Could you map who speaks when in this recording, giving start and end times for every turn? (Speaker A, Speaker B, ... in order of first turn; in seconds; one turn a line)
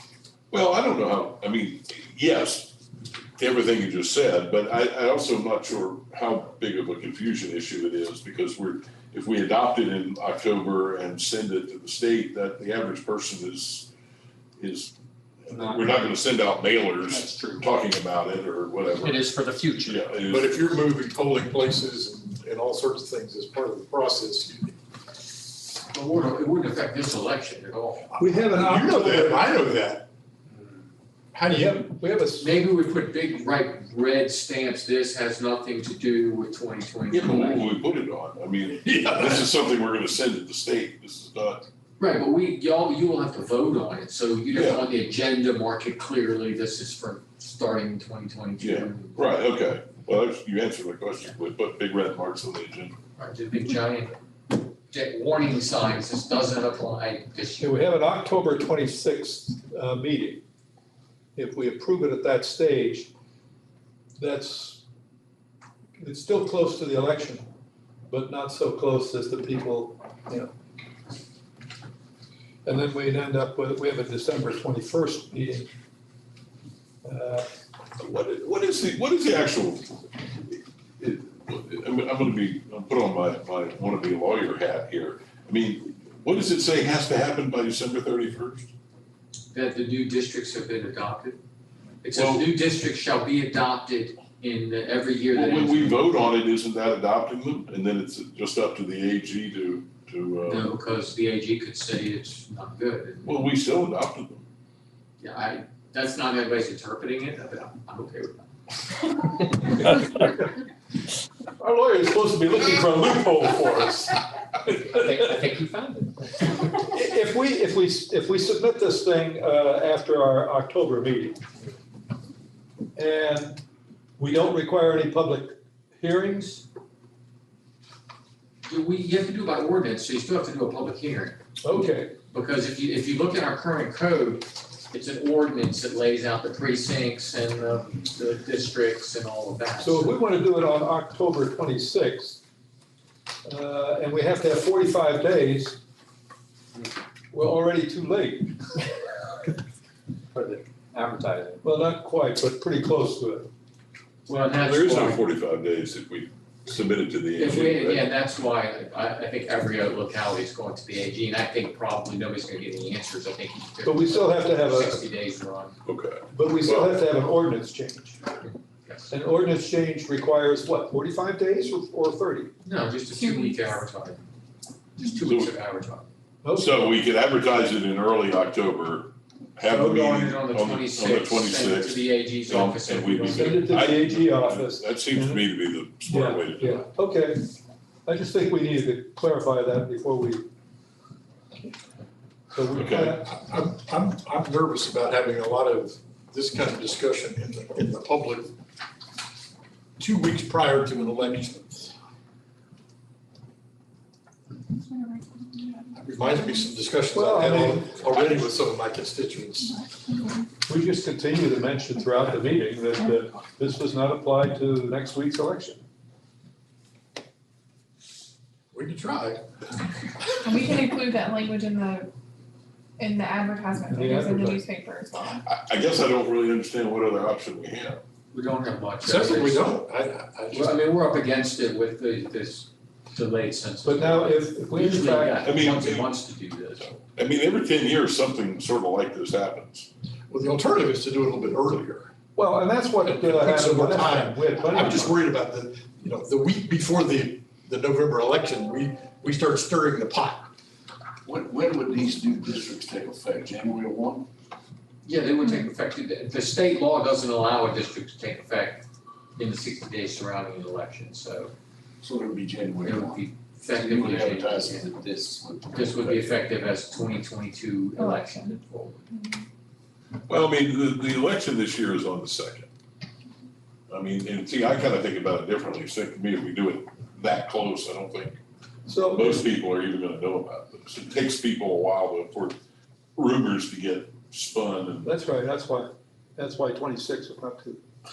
Speaker A: 0.5-2.8
Speaker A: 3.4-13.9
Speaker A: 14.6-14.9
Speaker A: 15.4-20.6
Speaker B: 15.5-15.8
Speaker B: 17.1-17.6
Speaker B: 19.0-19.9
Speaker C: 20.3-24.8
Speaker D: 25.9-28.1
Speaker C: 28.1-30.1
Speaker E: 28.2-29.4
Speaker C: 31.3-31.9
Speaker E: 31.4-32.5
Speaker D: 32.4-37.7
Speaker A: 37.1-41.7
Speaker D: 42.0-49.3
Speaker A: 44.5-44.9
Speaker A: 48.6-53.0
Speaker D: 53.2-57.7
Speaker E: 57.6-60.4
Speaker E: 61.4-63.1
Speaker E: 64.2-64.8
Speaker E: 66.0-67.5
Speaker E: 68.1-70.5
Speaker E: 72.6-75.7
Speaker E: 77.0-77.5
Speaker A: 78.0-88.7
Speaker D: 89.5-91.4
Speaker D: 92.0-96.2
Speaker A: 92.1-92.5
Speaker A: 95.3-100.7
Speaker D: 100.5-103.5
Speaker A: 103.2-104.5
Speaker D: 105.2-108.5
Speaker E: 111.6-114.2
Speaker B: 114.9-116.1
Speaker E: 115.1-115.4
Speaker E: 116.7-121.4
Speaker E: 123.0-123.6
Speaker E: 124.2-126.7
Speaker D: 128.7-131.4
Speaker E: 131.6-132.1
Speaker D: 132.3-140.1
Speaker E: 139.8-142.4
Speaker E: 143.4-145.8
Speaker E: 147.3-148.8
Speaker B: 150.3-151.6
Speaker E: 151.6-153.5
Speaker D: 154.2-155.2
Speaker A: 154.6-158.1
Speaker D: 157.4-165.8
Speaker E: 163.8-165.0
Speaker A: 165.8-166.9
Speaker E: 166.3-168.2
Speaker E: 169.1-172.5
Speaker D: 172.6-174.2
Speaker F: 173.1-173.6
Speaker D: 175.0-176.1
Speaker A: 175.2-175.6
Speaker E: 176.4-176.8
Speaker A: 176.6-186.8
Speaker D: 179.7-183.7
Speaker E: 183.3-185.4
Speaker E: 186.1-187.5
Speaker E: 188.1-190.4
Speaker E: 192.5-193.3
Speaker A: 192.7-193.1
Speaker C: 193.1-198.5
Speaker C: 200.0-201.9
Speaker F: 204.7-206.7
Speaker C: 205.9-209.8
Speaker E: 207.1-208.2
Speaker E: 210.7-215.8
Speaker C: 218.7-219.4
Speaker F: 220.4-222.1
Speaker F: 223.0-225.3
Speaker E: 223.9-224.6
Speaker A: 225.2-228.0
Speaker D: 228.3-229.8
Speaker C: 229.0-230.8
Speaker D: 230.5-236.9
Speaker E: 233.8-235.4
Speaker A: 235.4-236.2
Speaker A: 236.8-239.9
Speaker C: 240.3-242.1
Speaker E: 242.3-245.2
Speaker C: 243.0-250.5
Speaker G: 251.2-254.3
Speaker D: 255.0-261.5
Speaker G: 262.0-266.4
Speaker D: 262.8-264.9
Speaker D: 265.7-269.0
Speaker F: 268.0-268.5
Speaker F: 269.1-269.4
Speaker A: 270.3-272.7
Speaker A: 273.9-278.4
Speaker E: 278.9-279.4
Speaker A: 279.1-282.6
Speaker A: 283.1-285.1
Speaker E: 285.0-287.8